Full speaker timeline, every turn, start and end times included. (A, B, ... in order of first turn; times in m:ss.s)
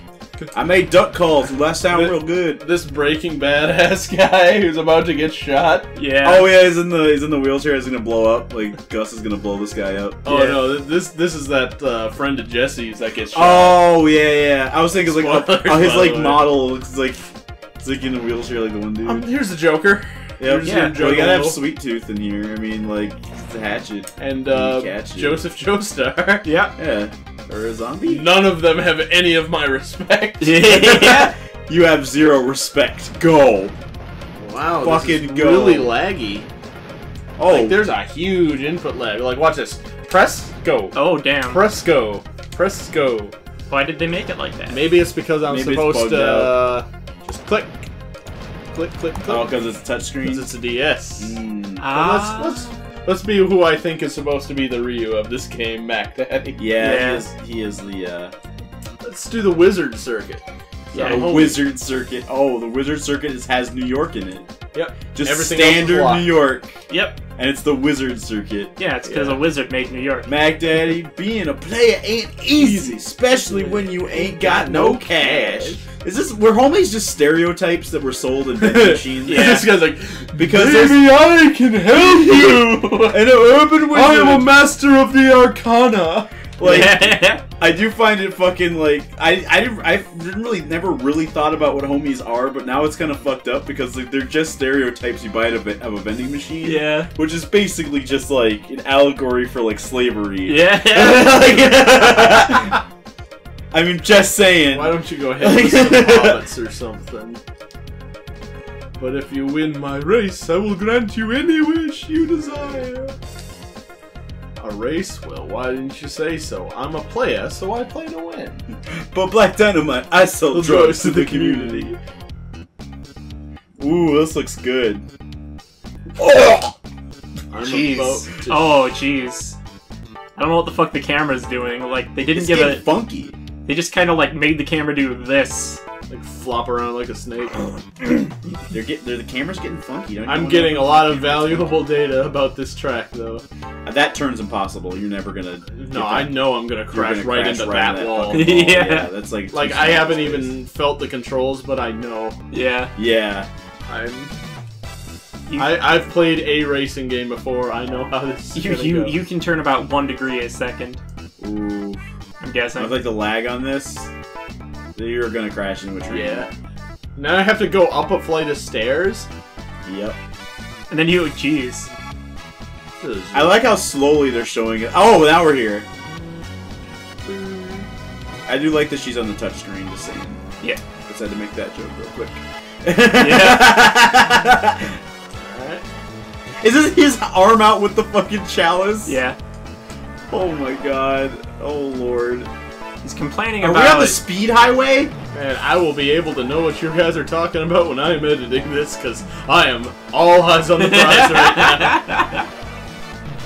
0:00.5-0:02.6 A
0:01.9-0:05.9 B
0:05.9-0:06.5 C
0:06.2-0:10.2 A
0:10.2-0:13.8 B
0:10.3-0:10.6 C
0:13.3-0:19.2 A
0:15.0-0:16.5 B
0:19.0-0:21.6 B
0:20.4-0:25.4 A
0:20.6-0:21.0 C
0:24.2-0:26.5 B
0:26.4-0:26.8 C
0:26.8-0:28.3 A
0:28.0-0:30.6 B
0:30.4-0:31.3 C
0:30.6-0:33.7 A
0:34.4-0:36.5 B
0:34.8-0:35.9 A
0:37.4-0:37.9 A
0:37.4-0:43.3 B
0:40.9-0:41.6 C
0:43.7-0:44.9 C
0:44.7-0:47.9 B
0:45.5-0:46.6 A
0:48.7-0:49.6 B
0:49.3-0:50.5 A
0:50.2-0:56.7 B
0:51.2-0:51.9 A
0:51.8-0:52.7 C
0:56.6-0:58.3 A
0:56.8-0:57.2 C
0:59.0-1:01.6 B
1:00.9-1:01.5 C
1:01.0-1:04.5 A
1:04.7-1:06.3 B
1:05.1-1:08.8 A
1:06.9-1:07.2 C
1:08.8-1:10.3 C
1:09.0-1:09.4 B
1:10.2-1:19.6 A
1:12.5-1:15.8 B
1:18.6-1:23.2 B
1:19.2-1:19.7 C
1:20.4-1:21.2 A
1:21.9-1:24.5 A
1:23.8-1:26.3 B
1:26.6-1:42.8 A
1:26.6-1:27.4 C
1:36.6-1:37.1 C
1:40.4-1:42.5 C
1:43.7-1:46.4 A
1:44.7-1:47.4 B
1:49.0-1:53.1 B
1:54.6-1:58.6 B
1:58.7-2:01.9 A
2:00.5-2:02.0 B
2:03.8-2:05.0 A
2:06.2-2:06.7 A
2:07.5-2:08.8 B
2:07.6-2:08.2 A
2:07.8-2:09.6 C
2:10.4-2:12.9 C
2:12.3-2:13.3 A
2:13.6-2:15.8 C
2:16.1-2:18.3 B
2:18.7-2:21.8 A
2:20.2-2:23.4 B
2:23.8-2:30.5 A
2:25.7-2:28.5 B
2:28.3-2:29.1 C
2:29.5-2:32.4 B
2:32.5-2:32.9 C
2:33.0-2:33.5 A
2:33.9-2:34.3 B
2:35.5-2:35.9 C
2:35.6-2:39.2 B
2:38.5-2:41.0 C
2:41.4-2:42.0 A
2:42.4-2:43.0 C
2:42.7-2:44.1 A
2:44.9-2:46.4 A
2:46.1-2:46.5 B
2:47.2-2:49.3 B
2:49.8-2:50.2 A
2:50.9-2:51.9 C
2:53.0-2:53.6 B
2:53.3-2:55.8 A
2:57.2-2:57.9 B
2:58.5-3:00.4 A
3:01.1-3:05.0 A
3:03.1-3:03.8 C
3:05.3-3:05.8 B
3:06.6-3:09.2 A
3:09.0-3:09.4 C
3:10.3-3:12.5 A
3:13.0-3:14.2 C
3:13.6-3:15.1 A
3:15.3-3:22.1 B
3:20.8-3:22.4 C